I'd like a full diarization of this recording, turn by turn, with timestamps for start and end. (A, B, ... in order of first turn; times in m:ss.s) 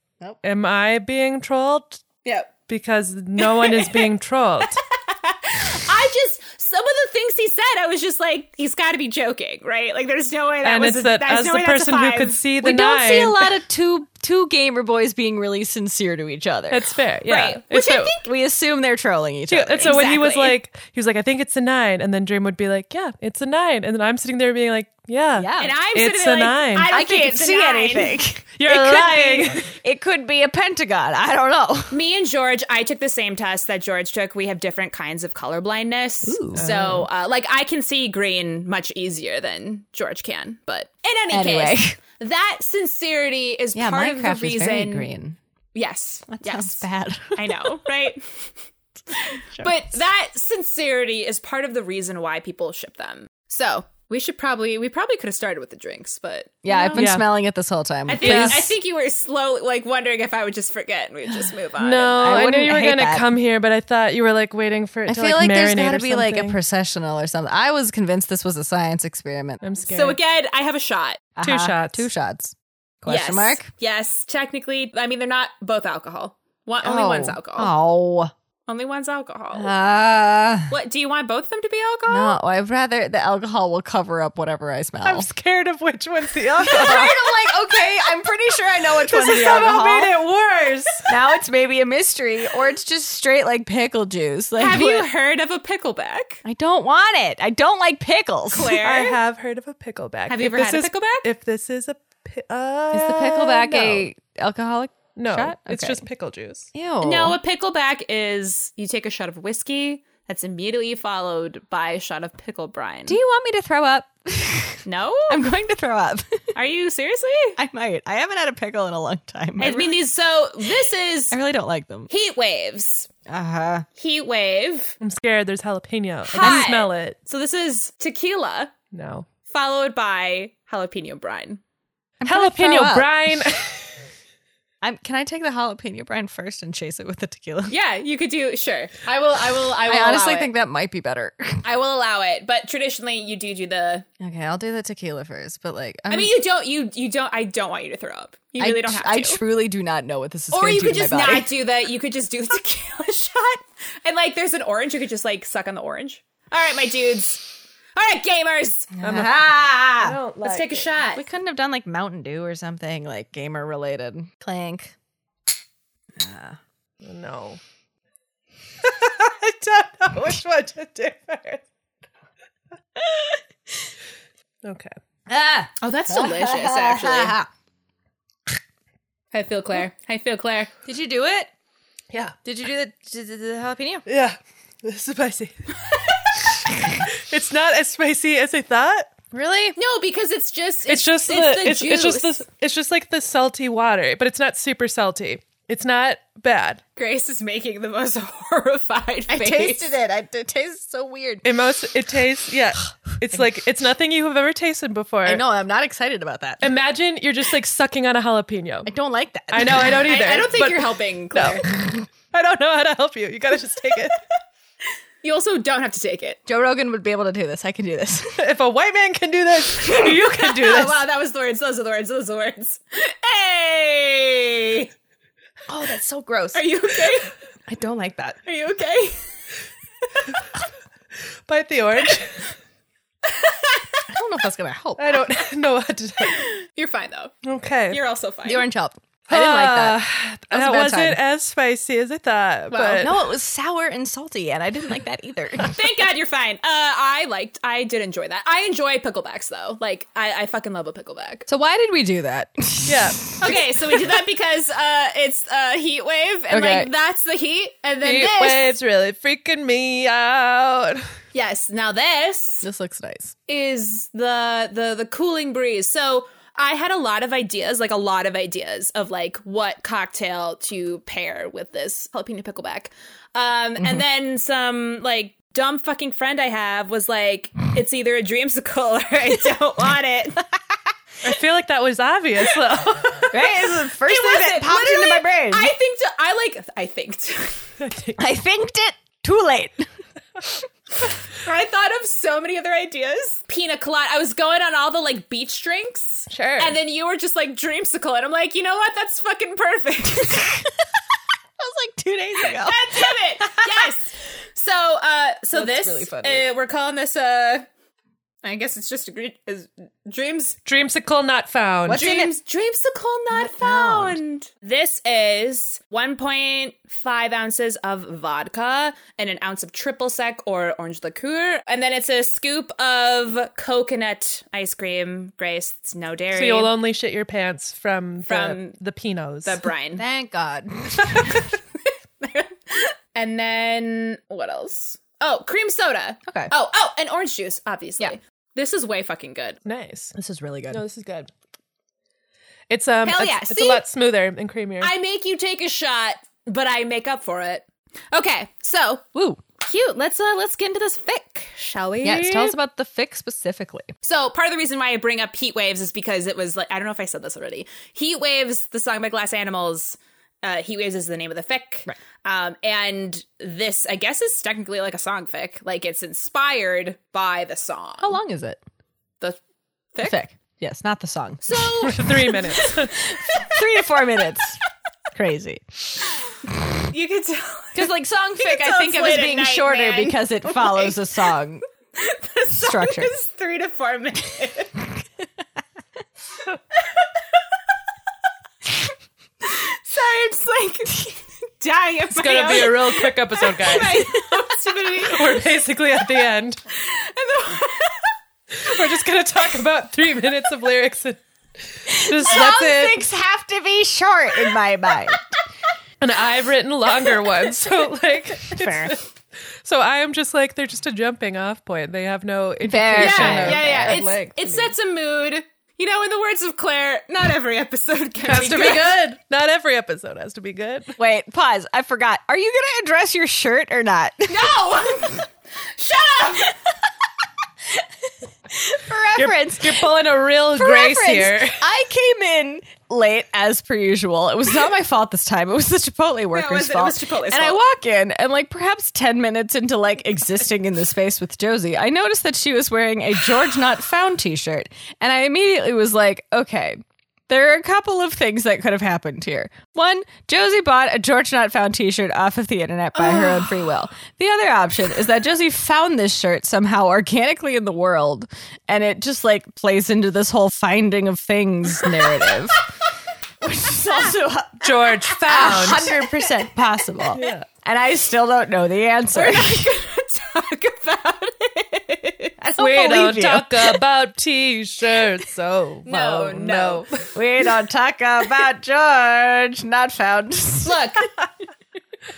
0:00.4-0:02.0 A
0:02.2-0:02.5 B
0:02.7-0:04.8 A
0:03.4-0:04.1 B
0:04.9-0:12.4 B
0:10.6-0:13.5 A
0:12.6-0:20.1 C
0:16.7-0:18.0 A
0:17.3-0:18.2 B
0:19.5-0:26.9 A
0:19.8-0:20.6 B
0:25.4-0:25.8 C
0:25.6-0:28.2 B
0:26.9-0:32.0 C
0:28.6-0:29.7 A
0:31.9-0:45.1 B
0:36.2-0:36.6 C
0:36.6-0:37.0 A
0:41.3-0:42.0 C
0:43.7-0:45.4 C
0:45.7-0:48.5 B
0:46.3-0:47.8 C
0:49.1-0:57.1 B
0:56.6-0:58.7 C
0:56.9-0:57.3 A
0:58.1-1:02.2 B
0:58.2-0:58.7 A
1:01.8-1:06.6 A
1:02.2-1:03.2 C
1:05.1-1:09.6 C
1:09.6-1:10.2 A
1:09.8-1:11.2 B
1:11.4-1:13.7 C
1:11.4-1:12.1 A
1:13.1-1:17.7 B
1:16.8-1:18.3 C
1:18.7-1:19.7 B
1:19.5-1:20.7 C
1:20.7-1:22.4 B
1:22.1-1:25.3 C
1:25.0-1:27.3 A
1:26.6-1:30.2 C
1:26.6-1:27.3 B
1:29.0-1:31.1 A
1:31.1-1:35.1 C
1:34.6-1:36.4 B
1:36.4-1:38.8 C
1:38.5-1:39.2 B
1:38.8-1:44.0 A
1:40.3-1:41.3 B
1:42.9-1:46.0 C
1:45.2-1:46.7 A
1:46.7-1:47.4 C
1:47.0-1:53.2 B
1:53.1-1:56.4 C
1:54.8-1:55.4 B
1:56.5-1:57.6 B
1:57.6-2:00.0 C
1:59.6-2:01.4 B
2:01.3-2:02.1 C
2:02.1-2:03.1 B
2:03.3-2:03.8 C
2:04.0-2:05.0 B
2:05.0-2:07.2 A
2:06.3-2:08.7 B
2:06.4-2:06.7 C
2:08.9-2:09.2 A
2:09.5-2:11.6 B
2:12.2-2:13.1 C
2:12.2-2:14.0 A
2:14.8-2:17.7 C
2:17.7-2:20.5 B
2:19.8-2:21.6 C
2:21.6-2:24.0 B
2:24.2-2:26.3 C
2:26.1-2:29.4 B
2:28.6-2:31.5 C
2:30.5-2:39.0 B
2:38.9-2:40.2 C
2:39.0-2:39.4 A
2:40.0-2:40.8 A
2:40.4-2:41.2 B
2:41.1-2:44.9 C
2:46.1-2:46.6 C
2:47.0-2:47.6 A
2:48.8-2:51.6 A
2:53.1-2:53.3 C
2:54.6-2:54.9 A
2:55.3-2:57.5 C
2:55.8-2:57.4 B
2:59.3-3:00.7 B
3:00.8-3:01.5 C
3:02.4-3:04.0 C
3:04.1-3:05.5 A
3:06.4-3:09.1 A
3:09.3-3:09.8 C
3:09.8-3:12.4 B
3:10.9-3:16.8 A
3:17.0-3:19.9 B
3:19.3-3:21.4 C
3:21.4-3:25.4 A
3:25.2-3:26.7 C
3:26.6-3:28.9 A
3:28.8-3:30.0 C
3:29.5-3:34.2 A
3:29.9-3:31.6 B
3:35.2-3:36.4 B
3:36.5-3:38.4 C
3:38.4-3:41.0 A
3:39.8-3:44.9 B
3:45.7-3:48.4 C
3:46.5-3:47.3 B
3:48.4-3:49.2 B
3:50.0-3:50.4 B
3:51.5-3:52.5 A
3:53.2-3:54.0 B
3:54.1-3:55.2 C
3:55.0-3:56.5 A
3:56.3-3:57.3 B
3:57.4-3:58.0 A
3:57.9-3:58.6 B
3:58.4-4:01.2 C
3:59.3-4:03.2 A
4:02.7-4:03.1 B
4:03.0-4:05.7 C
4:05.6-4:11.5 B
4:11.5-4:14.1 C
4:12.8-4:13.4 A
4:13.4-4:18.7 B
4:16.5-4:16.9 C
4:18.0-4:21.1 A
4:21.3-4:22.6 B
4:22.6-4:23.3 C
4:23.5-4:40.4 B
4:41.2-4:43.3 A
4:43.3-4:45.7 C
4:44.0-4:47.7 B
4:47.8-4:48.2 A
4:48.2-4:49.9 C
4:51.0-5:00.6 B
4:56.3-4:56.8 A
5:01.6-5:03.9 C
5:02.4-5:07.7 B
5:05.5-5:06.5 C
5:08.4-5:10.6 B
5:10.6-5:12.0 A
5:11.8-5:12.3 C
5:11.9-5:26.7 B
5:13.3-5:14.2 C
5:26.3-5:29.6 A
5:28.3-5:28.8 B
5:29.4-5:30.0 B
5:30.0-5:31.3 C
5:30.9-5:39.6 B
5:39.6-5:40.1 A
5:40.1-5:40.8 C
5:40.7-5:41.3 A
5:42.7-5:44.9 A
5:43.0-5:43.8 B
5:44.8-5:52.4 B
5:49.1-5:49.4 C
5:52.0-5:53.9 C
5:52.2-5:52.5 A
5:54.0-6:08.2 B
6:08.0-6:08.6 C
6:10.0-6:11.7 C
6:11.4-6:13.6 B
6:11.8-6:13.0 A
6:13.0-6:14.6 C
6:15.1-6:16.0 C
6:16.9-6:21.0 B
6:17.7-6:21.6 C
6:22.0-6:24.8 B
6:22.5-6:23.1 C
6:29.4-6:35.4 B
6:32.1-6:34.1 A
6:35.0-6:36.6 A
6:36.7-6:38.1 B
6:38.6-6:41.2 A
6:41.8-6:43.0 A
6:41.8-6:45.2 C
6:46.0-6:49.0 A
6:48.5-6:49.0 C
6:49.6-6:54.6 A
6:52.6-6:54.2 C
6:53.0-6:59.0 B
6:58.2-7:01.0 A
7:01.0-7:04.5 C
7:04.3-7:06.6 B
7:08.5-7:09.9 C
7:09.2-7:11.6 A
7:10.5-7:42.6 C
7:16.3-7:17.6 B
7:32.9-7:33.6 B
7:43.4-7:49.6 C
7:44.6-7:46.0 A
7:45.4-7:46.1 B
7:47.1-7:47.4 A
7:49.1-7:52.3 B
7:52.4-7:53.8 C
7:52.6-7:57.0 A
7:55.8-7:57.0 B
7:57.1-8:00.8 C
8:00.6-8:01.1 B